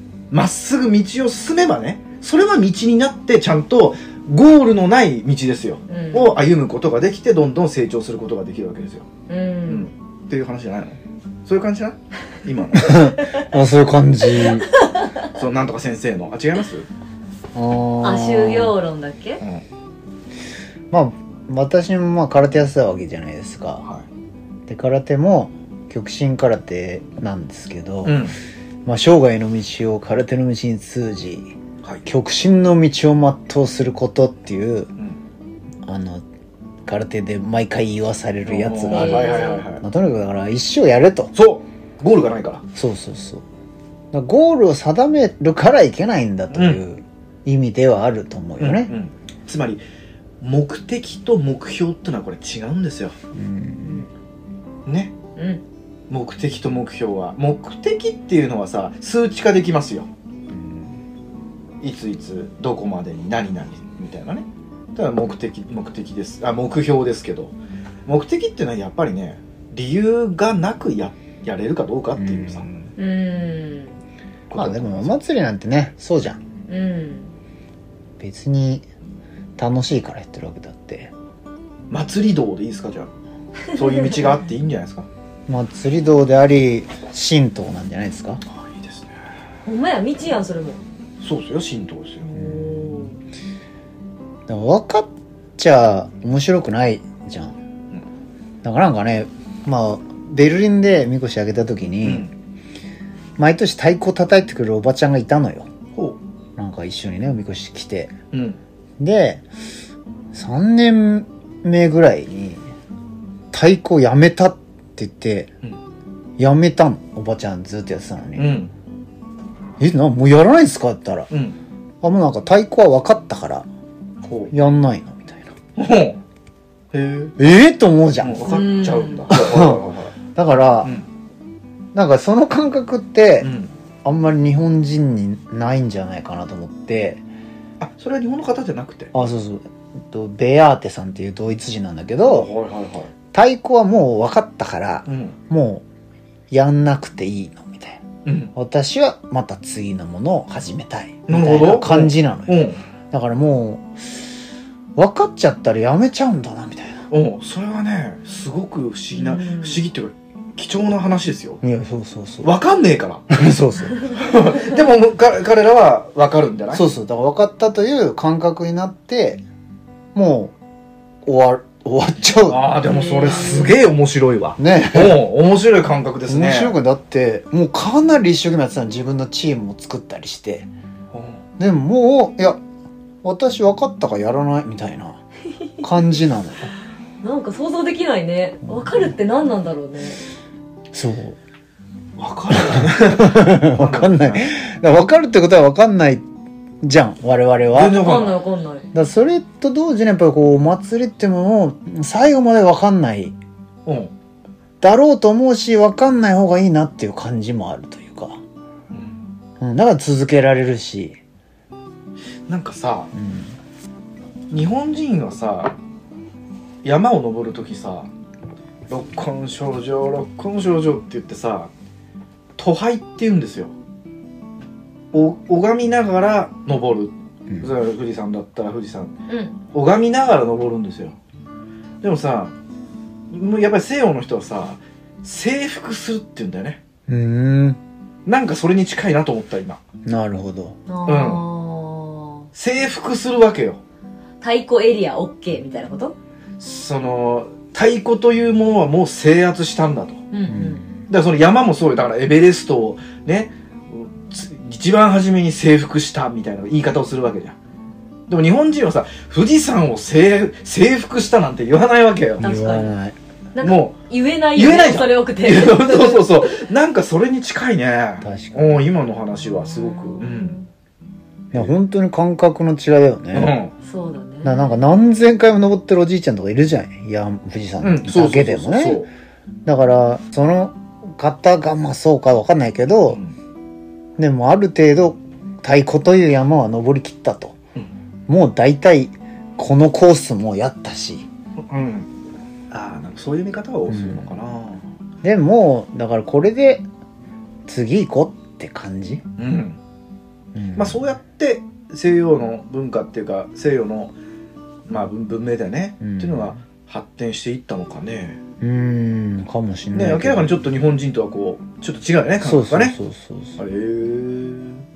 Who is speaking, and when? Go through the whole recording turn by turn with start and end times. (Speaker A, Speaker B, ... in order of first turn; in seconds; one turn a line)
Speaker A: 0.3-9.1
Speaker B: 5.9-6.4
Speaker B: 9.3-9.9
Speaker A: 9.7-13.0
Speaker C: 12.8-14.7
Speaker B: 14.3-15.2
Speaker A: 15.3-16.9
Speaker C: 17.5-18.8
Speaker B: 18.0-19.4
Speaker C: 20.9-23.9
Speaker C: 24.7-28.3
Speaker A: 28.0-28.4
Speaker C: 28.9-31.5
Speaker A: 31.8-32.1
Speaker C: 32.0-34.9
Speaker C: 35.9-36.2
Speaker C: 36.9-41.3
Speaker A: 38.5-39.9
Speaker B: 38.9-39.6
Speaker A: 41.3-42.6
Speaker C: 42.8-43.5
Speaker C: 44.1-48.9
Speaker A: 46.5-46.8
Speaker A: 48.6-49.8
Speaker A: 50.4-53.1
Speaker C: 53.3-54.1
Speaker B: 53.8-54.1
Speaker A: 54.9-55.1
Speaker B: 55.4-55.6
Speaker A: 56.1-60.1
Speaker C: 60.5-60.9
Speaker A: 61.8-67.5
Speaker A: 68.1-72.9
Speaker C: 72.2-72.7
Speaker B: 73.0-74.0
Speaker A: 74.5-75.2
Speaker C: 74.6-76.4
Speaker B: 76.7-77.3
Speaker C: 78.2-78.9
Speaker C: 79.6-81.1
Speaker A: 81.9-83.1
Speaker B: 83.7-84.3
Speaker A: 83.7-85.1
Speaker C: 85.5-88.4
Speaker A: 88.5-89.1
Speaker B: 89.7-90.8
Speaker A: 91.2-92.3
Speaker B: 92.2-93.2
Speaker C: 92.4-93.0
Speaker C: 94.5-97.6
Speaker C: 98.6-102.3
Speaker A: 102.0-102.3
Speaker C: 103.4-105.7
Speaker C: 106.6-108.1
Speaker A: 108.3-108.6
Speaker C: 109.0-109.5
Speaker C: 110.3-112.7
Speaker C: 113.5-115.5
Speaker C: 116.4-118.5
Speaker A: 118.4-118.7
Speaker C: 119.8-121.3
Speaker A: 121.3-121.6
Speaker C: 122.0-123.7
Speaker A: 124.2-124.5
Speaker C: 124.5-125.6
Speaker A: 125.8-126.2
Speaker A: 126.9-127.4
Speaker C: 127.4-128.5
Speaker A: 128.2-130.2
Speaker B: 128.4-129.3
Speaker C: 129.3-129.8
Speaker C: 130.3-130.9
Speaker C: 131.9-133.5
Speaker A: 133.4-133.7
Speaker C: 134.0-137.2
Speaker A: 137.8-139.1
Speaker C: 139.1-142.5
Speaker A: 142.2-143.1
Speaker C: 143.3-145.8
Speaker A: 145.1-145.4
Speaker C: 146.5-148.0
Speaker A: 148.2-148.5
Speaker C: 148.6-154.2
Speaker A: 151.3-152.8
Speaker C: 155.0-157.1
Speaker A: 157.1-161.6
Speaker B: 159.1-159.8
Speaker C: 161.6-162.6
Speaker A: 162.4-163.3
Speaker C: 163.3-164.1
Speaker A: 164.1-166.8
Speaker C: 166.7-169.4
Speaker C: 170.1-170.6
Speaker C: 171.2-172.7
Speaker A: 172.5-176.8
Speaker B: 172.9-173.8
Speaker C: 174.6-175.2
Speaker C: 176.3-180.7
Speaker A: 181.1-181.4
Speaker C: 181.6-182.6
Speaker C: 183.2-185.2
Speaker C: 185.8-186.7
Speaker B: 187.2-190.2
Speaker C: 190.9-191.4
Speaker A: 192.2-194.6
Speaker C: 192.5-196.3
Speaker C: 196.8-198.0
Speaker A: 197.7-198.4
Speaker B: 198.0-198.9
Speaker C: 198.9-203.4
Speaker A: 203.9-204.1
Speaker C: 204.8-208.4
Speaker A: 208.9-209.2
Speaker C: 209.6-211.2
Speaker A: 212.5-213.1
Speaker C: 213.1-213.6
Speaker A: 214.5-215.8
Speaker A: 216.8-218.1
Speaker A: 218.9-221.7
Speaker A: 222.6-223.7
Speaker A: 225.1-229.2
Speaker B: 229.3-229.6
Speaker A: 229.7-231.2
Speaker A: 232.0-232.5
Speaker A: 233.3-236.8
Speaker C: 237.1-237.8
Speaker A: 238.3-239.8
Speaker C: 240.1-240.8
Speaker B: 240.9-242.5
Speaker A: 241.1-241.5
Speaker A: 242.6-243.8
Speaker B: 244.4-246.2
Speaker A: 246.6-250.2
Speaker B: 250.3-250.8
Speaker C: 250.5-251.0
Speaker A: 251.1-257.6
Speaker A: 258.3-262.5
Speaker C: 262.4-263.2
Speaker B: 262.4-262.9
Speaker B: 263.5-266.3
Speaker A: 263.6-264.0
Speaker A: 264.5-270.6
Speaker C: 268.2-268.9
Speaker B: 269.7-270.7
Speaker C: 271.5-273.6
Speaker A: 273.3-273.7
Speaker B: 273.8-274.6
Speaker C: 274.4-279.0
Speaker A: 277.8-279.1
Speaker C: 279.6-283.2
Speaker A: 283.1-283.3
Speaker C: 284.2-287.6
Speaker C: 288.3-291.3
Speaker A: 291.7-292.1
Speaker A: 292.7-294.8
Speaker C: 293.9-294.3
Speaker C: 295.2-296.9
Speaker C: 297.7-299.2
Speaker A: 299.4-299.8
Speaker C: 300.5-301.0
Speaker A: 300.8-304.1
Speaker A: 304.9-308.4
Speaker C: 306.0-306.6
Speaker C: 308.6-310.6
Speaker A: 309.9-313.0
Speaker C: 312.4-313.6
Speaker A: 313.6-314.8